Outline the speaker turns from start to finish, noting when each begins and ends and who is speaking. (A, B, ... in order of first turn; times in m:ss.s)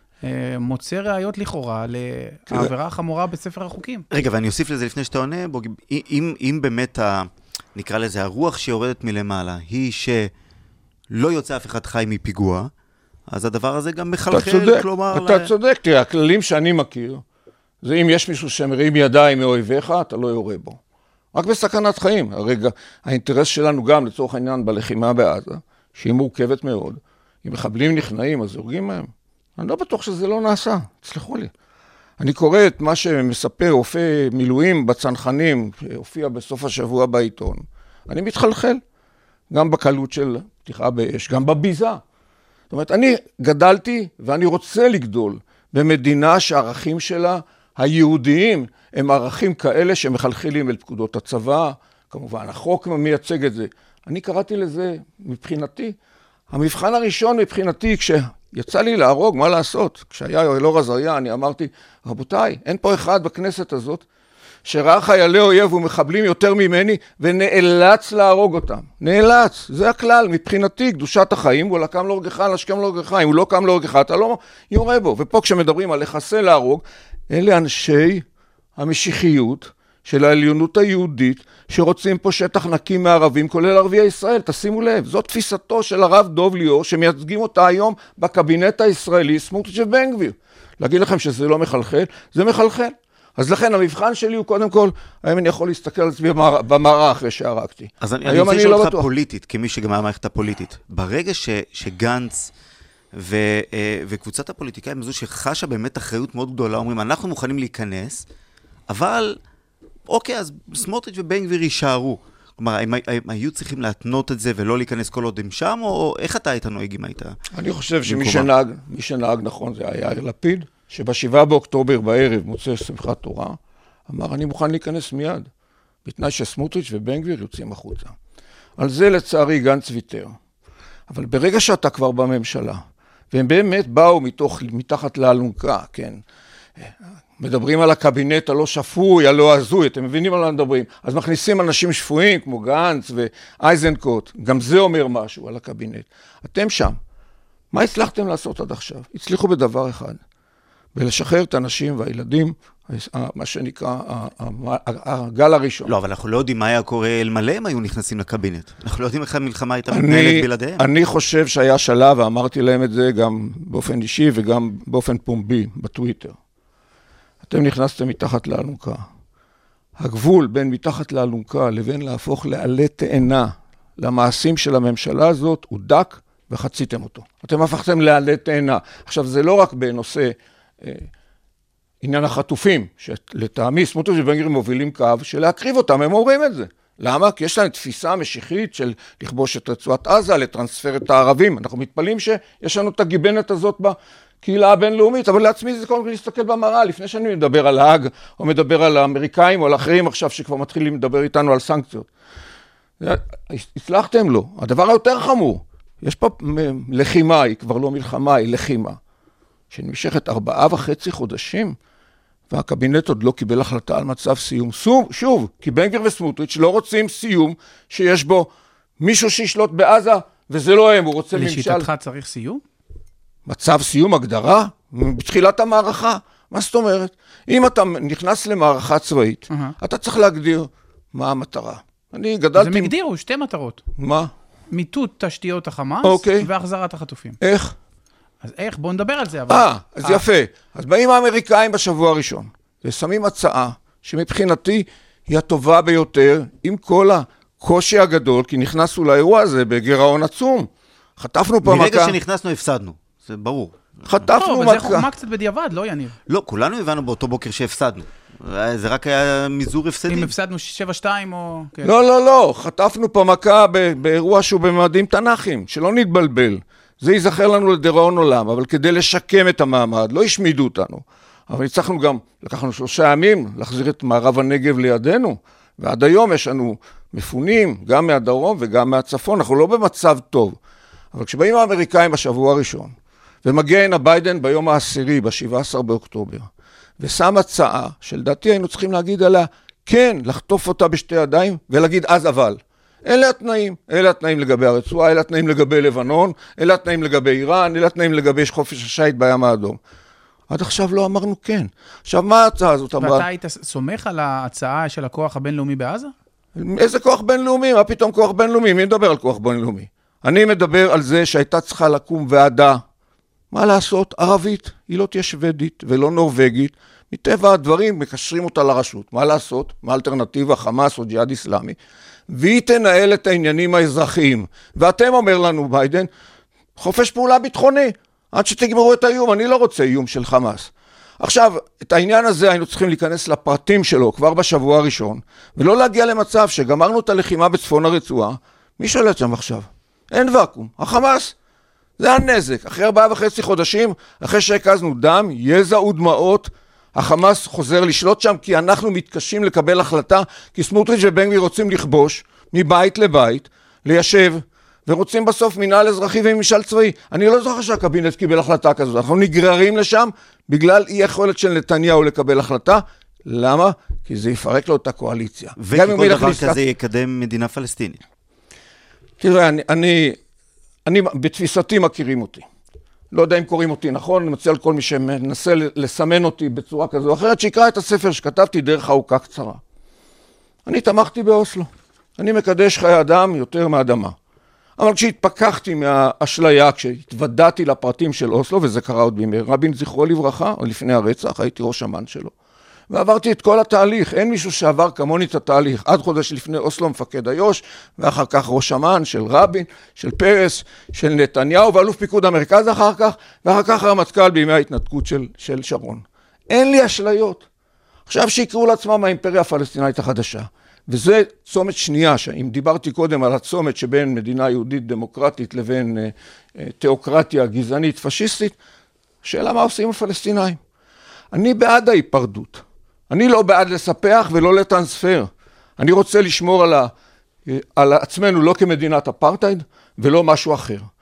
0:00.2-0:04.0 A
0:04.1-0:10.3 B
0:11.1-0:12.7 B
0:13.3-0:15.5 B
0:14.3-0:17.2 C
0:17.8-0:20.8 C
0:21.3-0:31.5 C
0:32.2-0:38.8 C
0:39.5-0:42.0 C
0:42.7-0:56.0 C
0:56.5-1:04.0 C
1:04.6-1:18.2 C
1:18.8-1:39.1 C
1:38.0-1:42.5 B
1:43.1-1:48.3 B
1:48.9-1:49.4 B
1:50.1-1:57.4 B
1:57.5-2:05.5 C
1:58.1-1:58.5 B
2:06.0-2:08.2 C
2:08.8-2:10.4 C
2:11.1-2:16.2 C
2:16.8-2:27.0 C
2:27.7-2:30.2 C
2:31.0-2:35.9 C
2:35.9-2:40.8 B
2:39.9-2:46.4 C
2:47.5-2:49.0 C
2:50.0-3:01.1 C
3:02.0-3:22.1 C
3:23.0-3:29.0 C
3:29.7-3:31.8 C
3:32.5-3:41.9 C
3:41.3-3:42.6 A
3:43.5-3:52.9 C
3:49.5-3:49.8 A
3:52.6-3:53.8 A
3:54.0-3:54.3 C
3:54.7-3:57.4 A
3:56.0-3:56.5 C
3:57.4-3:57.8 C
3:58.4-4:00.2 A
3:59.5-4:12.2 C
4:11.6-4:14.3 B
4:14.1-4:15.1 C
4:14.4-4:16.2 A
4:16.3-4:20.3 B
4:20.1-4:21.9 A
4:21.8-4:40.6 C
4:41.1-4:46.5 C
4:47.0-4:59.8 C
5:00.5-5:03.3 C
5:03.0-5:06.1 A
5:06.6-5:12.8 C
5:13.5-5:21.8 C
5:22.3-5:26.1 C
5:26.8-5:41.4 C
5:42.0-6:06.6 C
6:05.6-6:08.0 B
6:09.2-6:10.2 C
6:10.9-6:12.5 C
6:13.1-6:19.6 C
6:20.7-6:24.2 C
6:24.8-6:32.3 C
6:32.9-6:47.4 C
6:48.1-6:58.6 C
6:59.2-7:00.6 C
7:01.3-7:06.9 C
7:07.5-7:10.9 C